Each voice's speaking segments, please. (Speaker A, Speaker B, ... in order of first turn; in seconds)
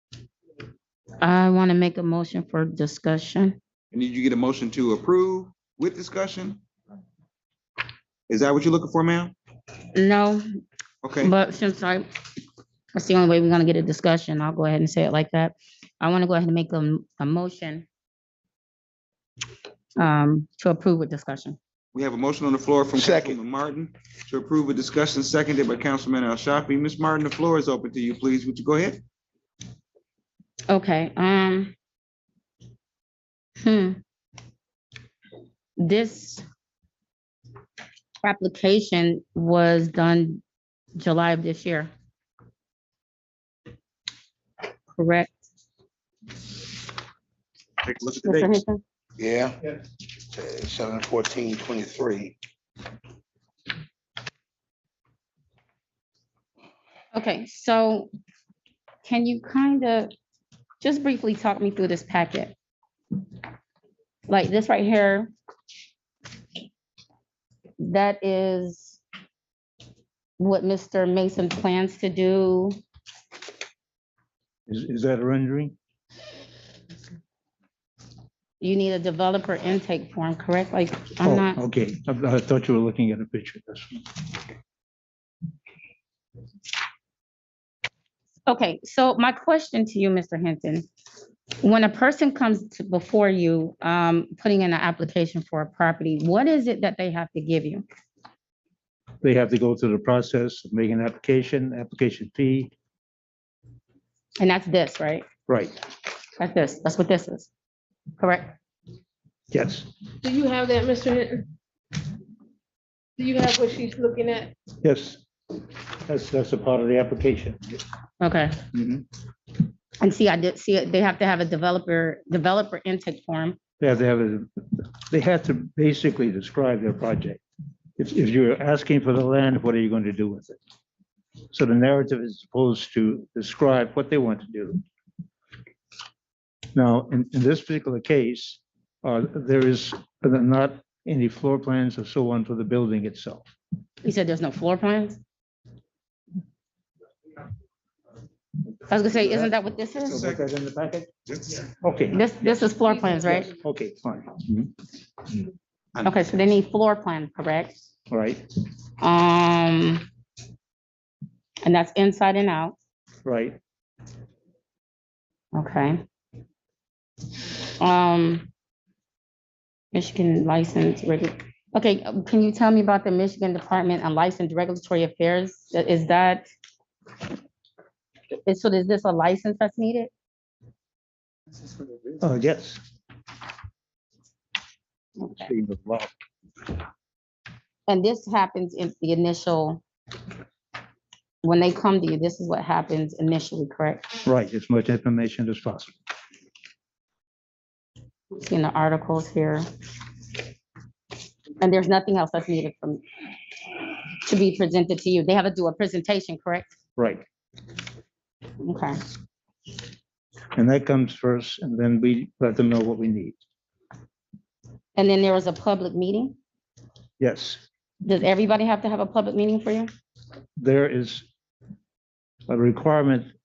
Speaker A: 1.2-3.6, 9.9-10.4, 11.2-12.1, 12.9-17.9, 20.0-21.6, 30.7-31.7, 33.6-34.0, 35.8-36.4, 38.2-40.4, 40.9-41.9, 44.9-45.4, 48.2-48.8, 57.1-58.1, 59.0-60.1, 60.8-62.5, 64.3-65.3, 67.8-69.0, 70.4-72.8, 78.6-81.6, 88.5-90.8, 91.6-97.8, 104.4-105.2, 106.4-107.5, 108.2-108.5, 118.2-118.6, 120.0-123.6, 144.0-145.2, 148.9-150.2, 152.1-153.5, 156.0-157.8, 159.0-160.0, 161.6-162.7, 165.5-166.0, 167.8-168.5, 169.9-176.4, 178.4-180.1, 185.2-185.5, 187.9-189.8, 191.4-194.2, 198.4-199.7, 201.6-203.0, 204.2-206.7, 208.6-209.0, 214.9-216.3, 218.0-219.9
Speaker B: 3.9-6.6, 8.3-9.3, 11.0-11.3, 21.9-29.0, 150.0-150.4, 151.3-151.6
Speaker C: 23.0-23.4, 49.2-49.6, 50.3-52.3
Speaker D: 47.9-48.5, 74.7-75.7, 81.2-84.1, 99.2-102.7, 105.5-105.8, 109.5-109.9, 114.8-115.2, 116.0-117.8, 118.7-119.0, 123.8-127.4, 128.0-130.6, 131.5-134.8, 136.7-143.5, 149.1-149.5, 150.0-151.1, 151.7-152.6, 153.2-154.7, 158.1-158.4, 163.2-163.6, 182.2-182.8, 185.3-186.1, 194.2-195.9, 207.0-207.2, 210.5-213.4, 217.2-217.6, 220.6-221.3, 222.5-223.3
Speaker E: 110.2-111.5, 113.2-114.5